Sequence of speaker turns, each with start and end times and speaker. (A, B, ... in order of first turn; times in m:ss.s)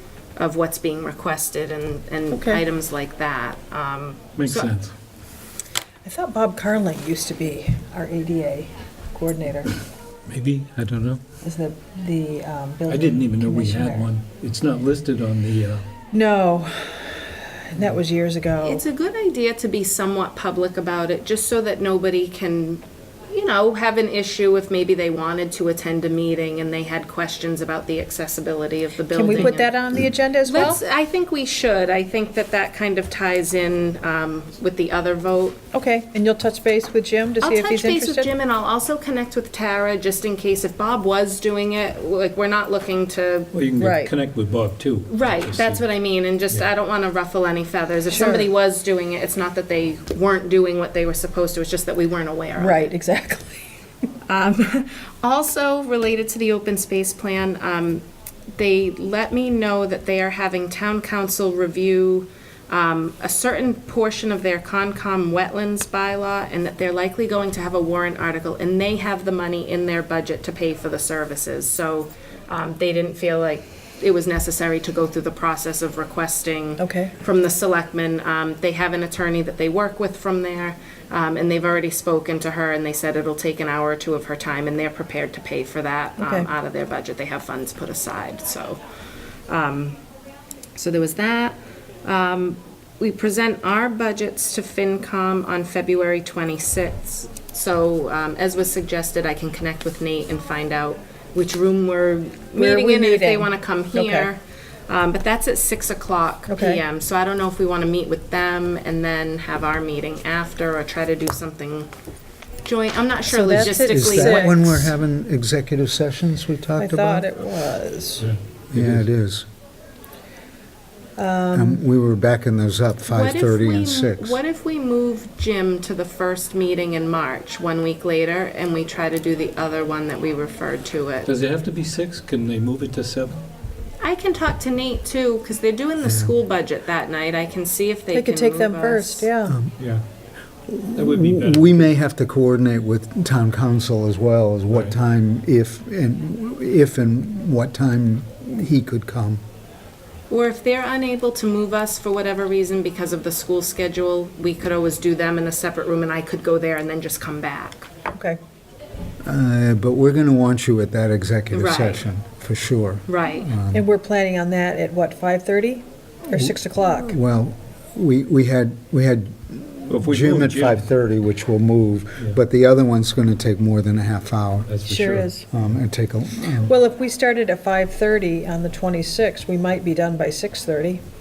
0:00.4-0:04.8 A
0:02.3-0:02.6 B
0:04.4-0:04.9 C
0:06.0-0:09.8 B
0:10.3-0:11.2 C
0:11.4-0:14.1 B
0:12.9-0:15.8 C
0:16.1-0:18.8 B
0:18.6-0:29.8 A
0:29.1-0:30.8 B
0:30.4-0:35.6 A
0:35.7-0:38.3 B
0:37.4-0:43.5 A
0:43.5-0:45.8 C
0:43.8-0:44.1 B
0:45.1-0:52.9 A
0:48.1-0:48.5 B
0:52.6-0:53.6 B
0:54.3-0:58.0 A
0:58.6-1:28.8 A
1:16.8-1:17.1 B
1:26.2-1:26.5 B
1:29.5-1:30.0 A
1:30.7-1:51.9 A
1:42.6-1:44.3 B
1:46.5-1:46.8 B
1:52.6-1:54.9 A
1:53.3-1:54.7 B
1:53.6-1:57.3 D
1:56.8-1:58.3 B
1:58.2-1:59.0 C
1:58.7-1:59.4 D
2:01.2-2:01.8 B
2:01.5-2:04.4 D
2:03.1-2:11.3 A
2:11.2-2:13.4 C
2:14.0-2:19.3 A
2:16.0-2:16.3 D
2:18.1-2:19.6 B
2:19.4-2:19.8 D
2:19.8-2:20.0 C
2:20.6-2:29.4 D
2:20.9-2:21.9 C
2:24.7-2:25.0 C
2:30.3-2:37.9 A
2:38.1-2:38.4 B
2:39.2-2:43.8 D
2:41.5-2:42.1 A
2:43.1-2:43.5 A
2:43.7-2:47.2 B
2:46.3-2:54.7 D
2:49.9-2:50.9 C
2:54.7-2:55.4 C
2:54.8-2:55.4 B
2:55.5-2:56.7 D
2:56.6-3:01.0 B